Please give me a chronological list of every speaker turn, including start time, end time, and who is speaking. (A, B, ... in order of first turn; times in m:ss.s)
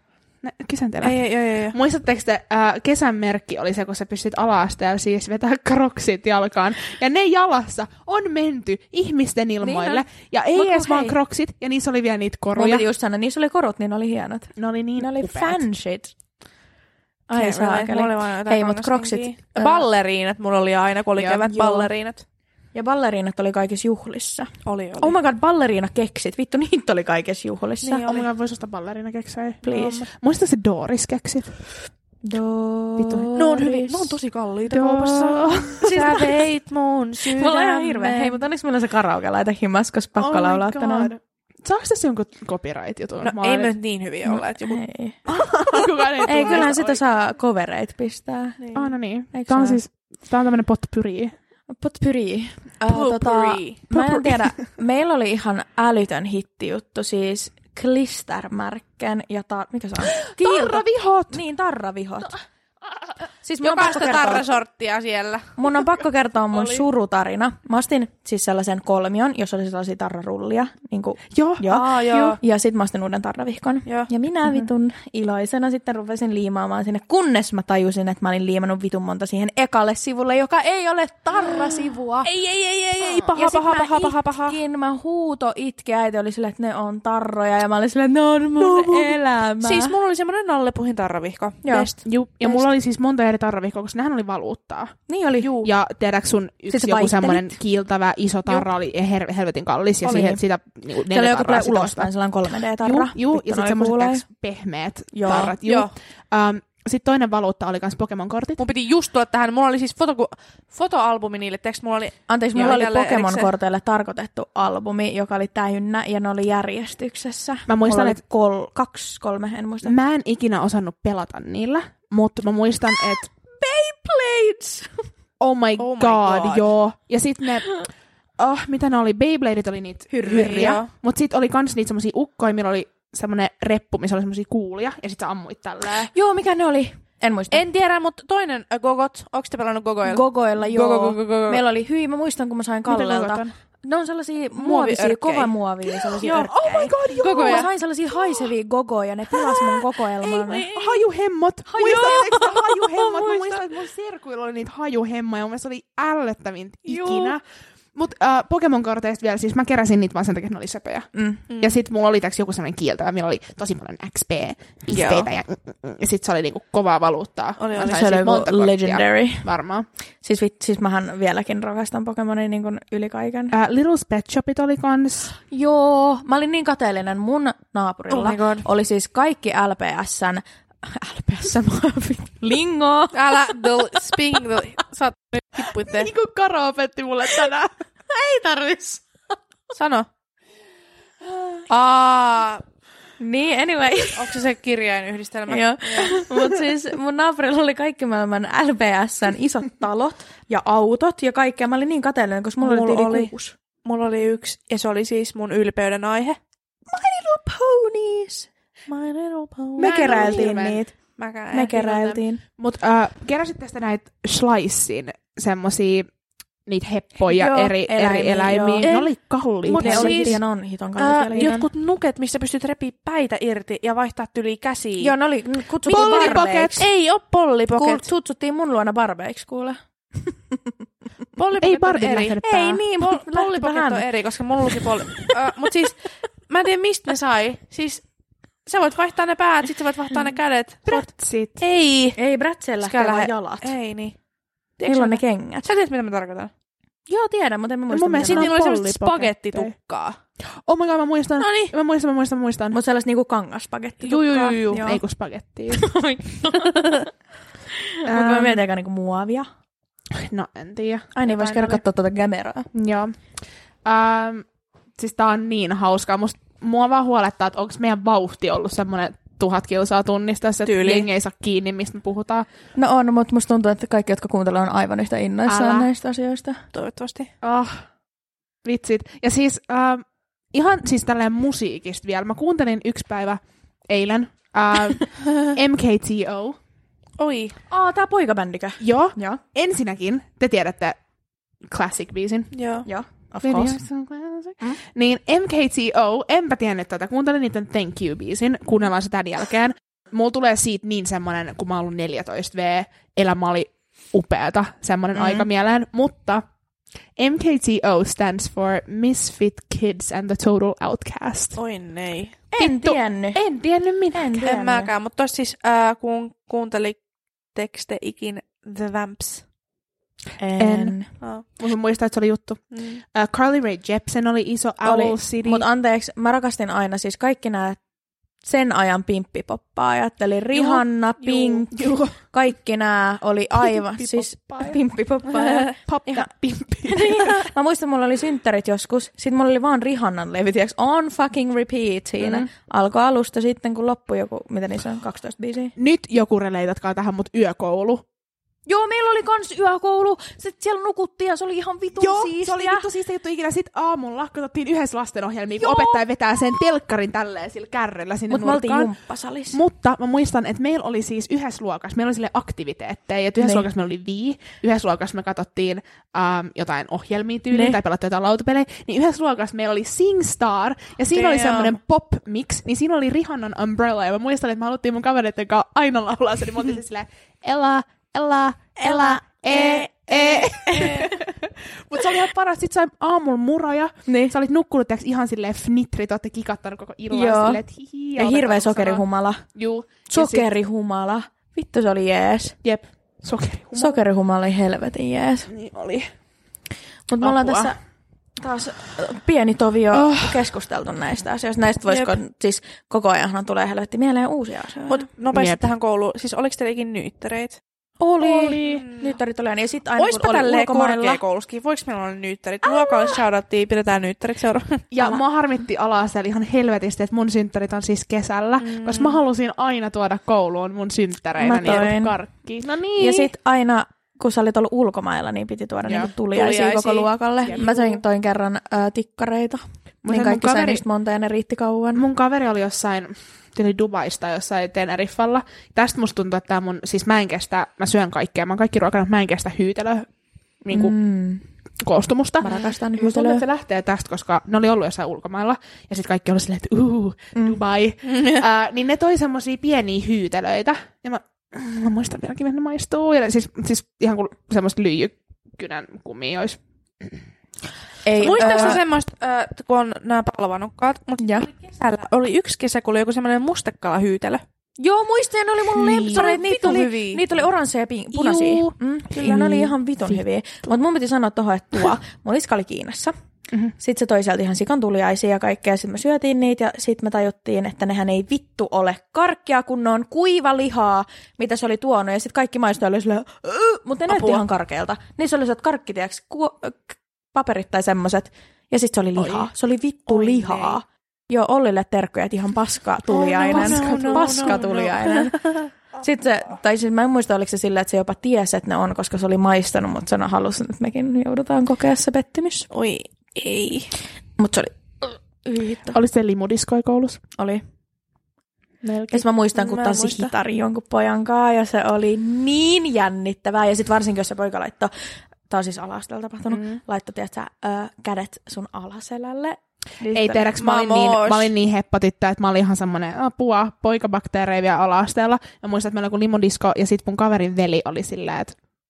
0:00.4-0:12.9 A
0:01.0-0:01.8 B
0:09.6-0:11.2 C
0:12.6-0:16.1 C
0:14.6-0:15.6 A
0:17.3-0:19.9 C
0:17.4-0:22.2 B
0:21.2-0:21.5 A
0:21.5-0:21.9 C
0:22.7-0:28.1 C
0:24.6-0:25.2 B
0:27.8-0:28.3 B
0:28.1-0:31.5 A
0:29.6-0:30.1 C
0:32.2-0:34.2 C
0:33.0-0:33.3 A
0:33.4-0:38.4 B
0:34.7-0:36.1 A
0:35.8-0:36.2 C
0:37.2-0:41.1 C
0:40.2-0:43.7 A
0:43.2-0:44.8 B
0:44.3-0:45.2 C
0:45.3-0:47.0 A
0:45.8-0:49.8 C
0:46.4-0:46.6 B
0:48.8-0:51.3 A
0:51.7-1:02.4 C
0:52.9-0:53.8 B
0:53.9-0:54.5 A
1:00.2-1:01.4 A
1:03.4-1:04.5 C
1:03.6-1:05.6 B
1:05.6-1:22.3 C
1:11.3-1:12.4 A
1:11.7-1:12.4 B
1:21.4-1:24.6 B
1:23.3-1:30.0 C
1:28.6-1:32.0 B
1:31.6-1:31.9 C
1:32.0-1:35.0 A
1:35.1-1:35.6 C
1:35.4-1:35.7 B
1:35.6-1:42.1 A
1:36.7-1:37.6 C
1:40.0-1:40.4 C
1:41.1-1:44.2 C
1:42.8-1:48.6 A
1:45.1-1:45.6 C
1:45.6-1:45.9 B
1:48.6-1:53.5 B
1:52.3-2:00.0 C
1:57.7-1:58.2 A
1:59.8-2:03.3 A
2:03.6-2:05.1 C
2:05.4-2:07.8 A
2:05.8-2:06.7 B
2:08.4-2:16.1 A
2:10.1-2:10.8 C
2:10.3-2:10.9 B
2:16.1-2:17.6 C
2:17.5-2:21.6 B
2:20.0-2:30.7 C
2:22.9-2:23.6 A
2:24.6-2:27.7 B
2:26.4-2:27.7 A
2:30.2-2:31.0 B
2:30.7-2:37.4 A
2:31.7-2:32.5 C
2:31.8-2:33.7 B
2:36.9-2:37.4 B
2:38.0-2:49.9 A
2:41.1-2:41.4 C
2:41.5-2:41.8 B
2:44.9-2:45.3 B
2:47.6-2:48.2 B
2:47.8-2:49.5 C
2:50.2-2:53.6 C
2:53.5-2:55.3 A
2:55.5-3:04.1 C
2:58.1-2:58.6 B
3:03.1-3:06.1 B
3:05.9-3:07.7 A
3:07.2-3:07.5 C
3:08.1-3:09.1 C
3:09.7-3:10.1 B
3:11.7-3:12.6 B
3:13.2-3:14.4 C
3:14.1-3:16.3 B
3:15.5-3:23.6 C
3:22.6-3:23.3 B
3:23.8-3:26.4 B
3:26.9-3:28.5 C
3:28.9-3:30.6 B
3:29.8-3:30.9 C
3:29.8-3:30.8 A
3:31.2-3:32.2 B
3:31.5-3:32.4 C
3:32.6-3:36.1 A
3:36.7-3:40.4 A
3:37.2-3:38.9 C
3:38.8-3:39.1 B
3:39.7-3:40.4 B
3:39.7-3:41.7 C
3:41.0-3:45.1 B
3:45.0-3:46.9 C
3:45.8-3:48.1 B
3:45.9-3:46.7 A
3:47.8-3:50.7 C
3:51.4-3:52.4 B
3:51.6-3:52.8 A
3:52.4-3:54.0 C
3:53.0-3:58.0 B
3:54.8-3:55.3 C
3:58.7-4:01.1 B
4:00.9-4:01.6 A
4:01.6-4:02.2 B
4:02.2-4:03.7 C
4:02.8-4:04.2 B
4:04.8-4:06.5 B
4:04.9-4:05.7 C
4:07.1-4:08.5 C
4:07.9-4:09.7 A
4:08.2-4:10.2 B
4:10.7-4:12.8 A
4:11.4-4:11.7 B
4:12.7-4:15.0 C
4:14.0-4:14.9 B
4:14.8-4:15.9 A
4:15.7-4:17.1 C
4:16.6-4:17.0 B
4:17.7-4:19.5 C
4:18.1-4:18.6 A
4:20.1-4:21.8 A
4:21.2-4:22.7 C
4:22.7-4:23.1 A
4:23.8-4:24.5 A
4:25.0-4:32.5 A
4:30.6-4:31.1 B
4:32.8-4:36.6 C
4:35.5-4:35.9 A
4:36.7-4:37.3 B
4:37.4-4:37.9 A
4:38.6-4:46.6 A
4:45.3-4:45.6 B
4:47.2-4:47.6 B
4:47.7-4:49.4 C
4:48.8-4:51.0 A
4:51.6-4:52.5 A
4:52.5-4:52.9 B
4:52.8-4:53.8 C
4:53.4-5:06.4 A
5:05.2-5:05.5 C
5:07.2-5:11.6 A
5:11.6-5:12.4 B
5:12.5-5:13.4 C
5:12.6-5:14.4 A
5:14.1-5:14.9 C
5:14.4-5:17.0 B
5:17.5-5:19.4 B
5:20.4-5:21.1 C
5:20.6-5:21.0 A
5:21.6-5:22.6 A
5:22.7-5:23.0 B
5:23.1-5:25.7 A
5:24.8-5:27.8 C
5:28.4-5:36.3 C
5:31.3-5:31.6 B
5:31.7-5:32.2 A
5:33.6-5:34.8 A
5:35.7-5:37.5 A
5:36.9-5:45.7 C
5:42.2-5:42.5 A
5:45.8-5:48.0 A
5:48.7-5:52.9 C
5:52.0-5:58.9 A
5:55.6-5:56.0 C
5:58.3-5:59.6 C
5:59.5-6:29.0 A
6:03.4-6:03.7 C
6:07.5-6:07.8 C
6:11.1-6:11.8 B
6:18.8-6:21.2 C
6:24.1-6:24.4 C
6:27.1-6:27.6 C
6:28.2-6:29.4 C
6:29.6-6:30.5 A
6:30.1-6:32.6 C
6:32.6-6:34.0 A
6:33.8-6:35.5 C
6:35.5-6:36.1 A
6:37.1-6:37.8 C
6:37.2-6:37.7 A
6:38.4-6:45.1 C
6:39.9-6:40.3 A
6:41.9-6:42.2 B
6:44.9-6:47.6 B
6:45.3-6:45.6 A
6:48.0-6:51.2 C
6:48.2-6:48.8 A
6:48.2-6:49.2 B
6:50.0-6:54.9 B
6:52.7-6:53.1 C
6:54.9-7:03.3 A
6:58.6-6:59.2 B
7:01.4-7:02.2 C
7:03.0-7:12.0 C
7:05.8-7:06.1 A
7:06.3-7:07.7 B
7:07.5-7:08.0 A
7:10.0-7:10.8 A
7:12.0-7:20.1 A
7:20.6-7:21.0 A
7:20.7-7:21.4 C
7:21.8-7:37.1 A
7:22.4-7:23.4 C
7:28.1-7:28.4 B
7:38.0-7:38.8 C
7:38.2-7:44.4 B
7:38.2-7:38.8 A
7:41.2-7:41.5 C
7:44.8-7:53.2 C
7:45.7-7:46.4 A
7:45.9-7:47.2 B
7:48.2-7:50.2 A
7:53.8-8:15.4 C
8:04.1-8:04.4 B
8:09.2-8:09.5 A
8:10.1-8:10.8 B
8:13.1-8:15.7 B
8:13.4-8:14.8 A
8:16.0-8:22.7 C
8:22.7-8:23.9 B
8:24.4-8:26.0 C
8:25.9-8:27.2 A
8:27.4-8:27.6 C
8:28.8-8:29.3 A
8:29.1-8:34.9 C
8:29.6-8:30.3 B
8:35.5-8:40.5 C
8:36.5-8:36.8 A
8:40.1-8:48.6 A
8:40.6-8:41.5 B